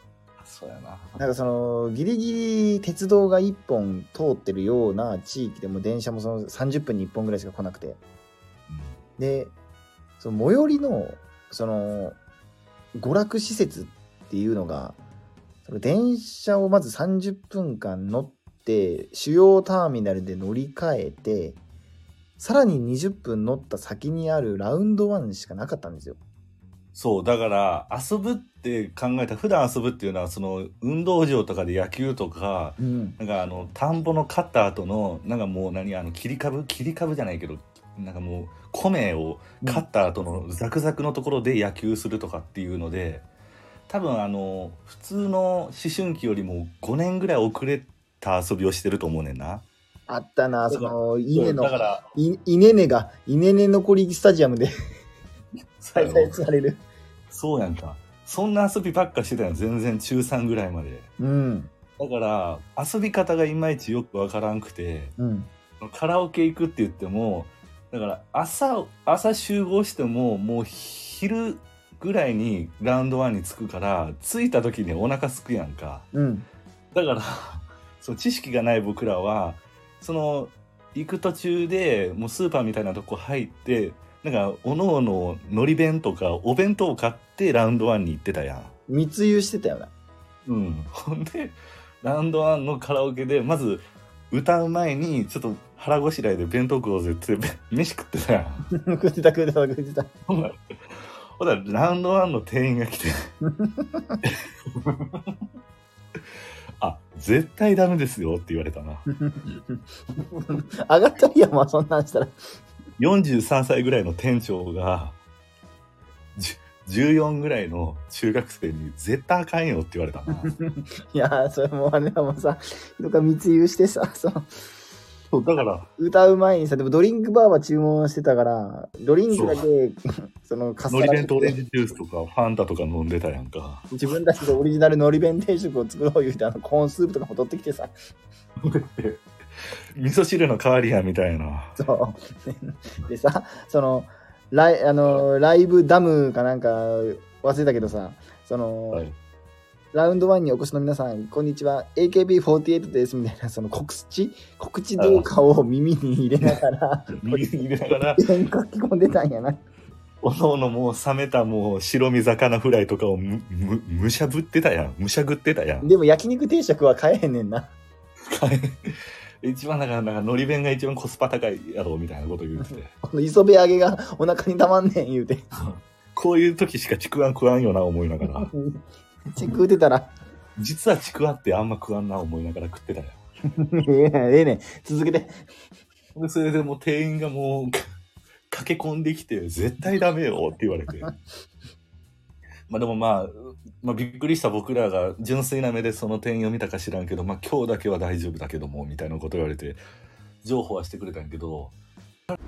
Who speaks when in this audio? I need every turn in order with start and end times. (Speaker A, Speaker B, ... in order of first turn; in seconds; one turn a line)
Speaker A: 0.4-1.2
Speaker B: 1.2-8.0
Speaker A: 8.7-9.0
Speaker B: 9.2-9.6
Speaker B: 10.2-12.2
Speaker B: 12.9-15.0
Speaker B: 15.7-21.6
Speaker B: 22.4-26.2
Speaker A: 26.9-43.3
Speaker B: 32.8-33.2
Speaker A: 43.9-49.7
Speaker B: 50.1-54.7
Speaker A: 50.7-52.0
Speaker A: 55.8-56.4
Speaker B: 56.0-56.8
Speaker A: 57.3-61.1
Speaker B: 61.2-61.7
Speaker A: 62.0-65.1
Speaker B: 65.2-65.5
Speaker A: 65.8-76.1
Speaker B: 76.1-76.5
Speaker A: 76.9-88.7
Speaker B: 88.9-89.9
Speaker A: 90.5-98.7
Speaker B: 98.8-100.1
Speaker A: 100.3-100.5
Speaker A: 101.4-103.3
Speaker B: 103.4-104.2
Speaker A: 104.2-105.4
Speaker A: 106.8-109.0
Speaker B: 109.1-112.4
Speaker A: 113.0-115.2
Speaker A: 116.4-120.5
Speaker B: 120.4-124.6
Speaker A: 125.3-125.9
Speaker B: 126.0-131.6
Speaker A: 129.3-129.6
Speaker A: 130.9-133.9
Speaker B: 133.9-137.9
Speaker A: 138.6-139.2
Speaker A: 140.0-141.8
Speaker B: 141.8-149.1
Speaker B: 149.9-159.6
Speaker A: 155.0-155.3
Speaker A: 157.2-158.2
Speaker A: 160.2-165.9
Speaker B: 165.8-167.7
Speaker A: 168.3-168.8
Speaker A: 169.4-172.9
Speaker B: 172.6-175.4
Speaker A: 175.6-178.5
Speaker B: 178.2-178.8
Speaker B: 179.3-180.1
Speaker A: 180.6-183.2
Speaker B: 183.6-185.4
Speaker A: 186.2-187.8
Speaker A: 188.5-191.1
Speaker A: 192.7-199.8
Speaker A: 200.4-201.8